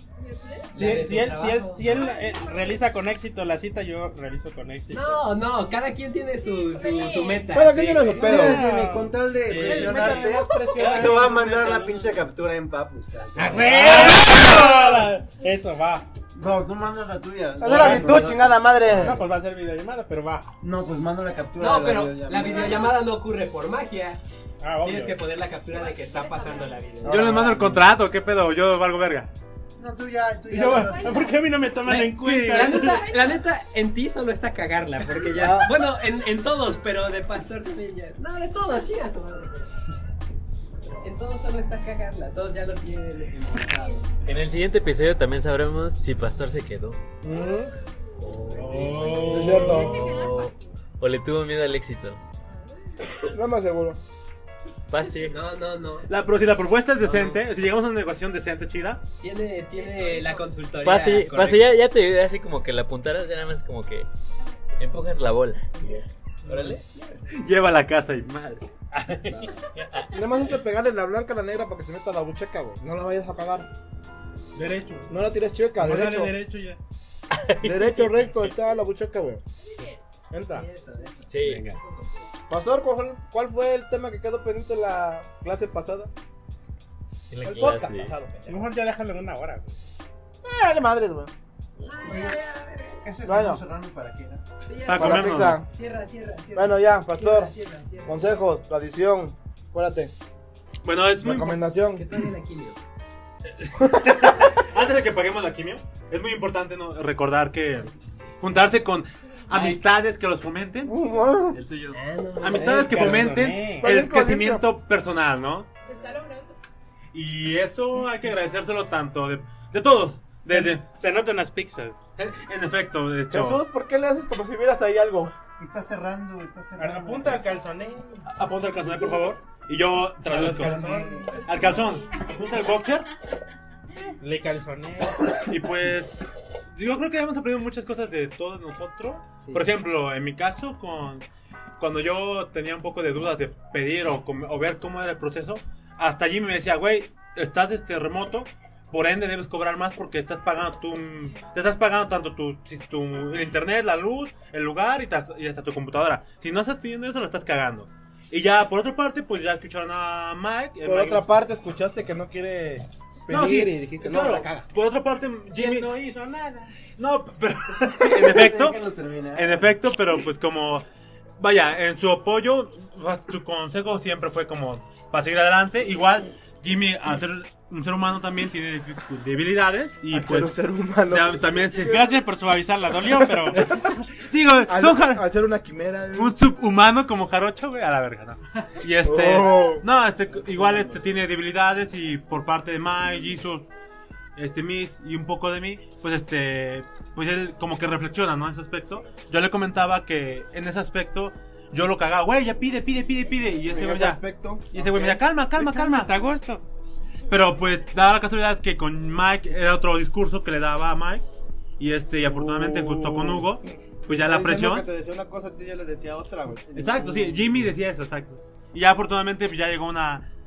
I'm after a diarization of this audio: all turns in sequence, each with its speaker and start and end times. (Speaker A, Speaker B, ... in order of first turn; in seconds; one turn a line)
Speaker A: 0.2-0.7
Speaker B: 0.7-2.2
Speaker C: 0.8-5.2
Speaker B: 4.9-8.2
Speaker A: 6.4-7.5
Speaker D: 7.5-8.7
Speaker C: 7.8-12.1
Speaker E: 8.2-14.0
Speaker D: 9.5-10.4
Speaker C: 13.4-16.1
Speaker B: 13.4-14.3
Speaker E: 16.3-18.7
Speaker D: 17.6-19.2
Speaker C: 17.7-18.0
Speaker C: 18.9-20.5
Speaker E: 20.6-23.0
Speaker B: 21.6-24.2
Speaker A: 22.3-22.9
Speaker C: 24.6-25.2
Speaker B: 24.8-27.5
Speaker A: 25.7-27.1
Speaker D: 27.0-27.9
Speaker F: 27.1-29.3
Speaker E: 29.8-31.4
Speaker C: 30.5-33.0
Speaker A: 30.8-31.4
Speaker B: 31.9-39.7
Speaker F: 32.1-32.9
Speaker A: 32.7-33.4
Speaker D: 35.3-35.7
Speaker B: 41.0-44.1
Speaker G: 44.2-47.0
Speaker D: 47.2-47.7
Speaker G: 48.2-52.2
Speaker C: 48.5-49.8
Speaker D: 49.1-50.1
Speaker A: 49.6-50.6
Speaker D: 53.3-54.0
Speaker G: 54.9-55.4
Speaker B: 55.2-56.1
Speaker F: 56.1-59.0
Speaker B: 57.0-57.4
Speaker B: 59.2-61.8
Speaker A: 59.8-60.5
Speaker G: 60.8-64.1
Speaker G: 64.8-66.8
Speaker C: 66.5-66.8
Speaker F: 67.3-69.4
Speaker D: 70.1-73.7
Speaker C: 74.5-75.1
Speaker D: 75.1-76.3
Speaker C: 75.8-76.8
Speaker D: 77.6-79.4
Speaker C: 77.8-78.5
Speaker A: 79.6-80.0
Speaker D: 80.3-80.7
Speaker B: 80.5-82.3
Speaker G: 81.3-81.8
Speaker D: 82.5-86.1
Speaker G: 87.3-88.1
Speaker D: 87.4-88.7
Speaker C: 88.5-89.8
Speaker D: 90.4-91.3
Speaker B: 91.8-93.1
Speaker G: 91.8-92.2
Speaker E: 93.0-94.4
Speaker D: 93.2-93.6
Speaker B: 94.6-98.4
Speaker F: 94.9-95.6
Speaker D: 94.9-95.7
Speaker D: 96.5-97.5
Speaker D: 98.0-100.1
Speaker F: 100.8-101.6
Speaker D: 101.2-102.0
Speaker B: 102.0-102.8
Speaker F: 103.6-110.9
Speaker D: 110.8-111.6
Speaker G: 111.5-112.0
Speaker B: 111.9-113.2
Speaker F: 112.4-115.7
Speaker C: 112.5-113.9
Speaker D: 113.8-114.7
Speaker A: 115.8-116.6
Speaker F: 117.1-120.8
Speaker D: 120.5-120.8
Speaker C: 120.8-122.0
Speaker F: 122.2-123.6
Speaker D: 123.3-125.4
Speaker E: 125.6-127.4
Speaker C: 126.8-128.3
Speaker F: 128.3-130.8
Speaker C: 130.3-131.1
Speaker D: 130.3-131.1
Speaker E: 130.3-131.5
Speaker F: 131.4-133.1
Speaker C: 134.2-135.4
Speaker F: 135.4-141.3
Speaker F: 141.8-161.3
Speaker D: 160.8-164.7
Speaker F: 163.3-165.9
Speaker C: 165.4-166.8
Speaker F: 166.8-168.8
Speaker E: 168.0-169.8
Speaker F: 169.3-170.8
Speaker F: 171.4-182.0
Speaker D: 180.1-182.1
Speaker C: 181.9-183.7
Speaker D: 183.5-184.0
Speaker F: 183.7-185.3
Speaker D: 184.7-186.4
Speaker F: 186.1-193.7
Speaker D: 189.0-189.9
Speaker F: 194.4-206.2
Speaker D: 203.6-205.2
Speaker C: 205.5-206.7
Speaker F: 207.3-211.2
Speaker F: 211.8-214.9
Speaker D: 212.2-213.5
Speaker D: 214.1-217.7
Speaker F: 216.7-220.3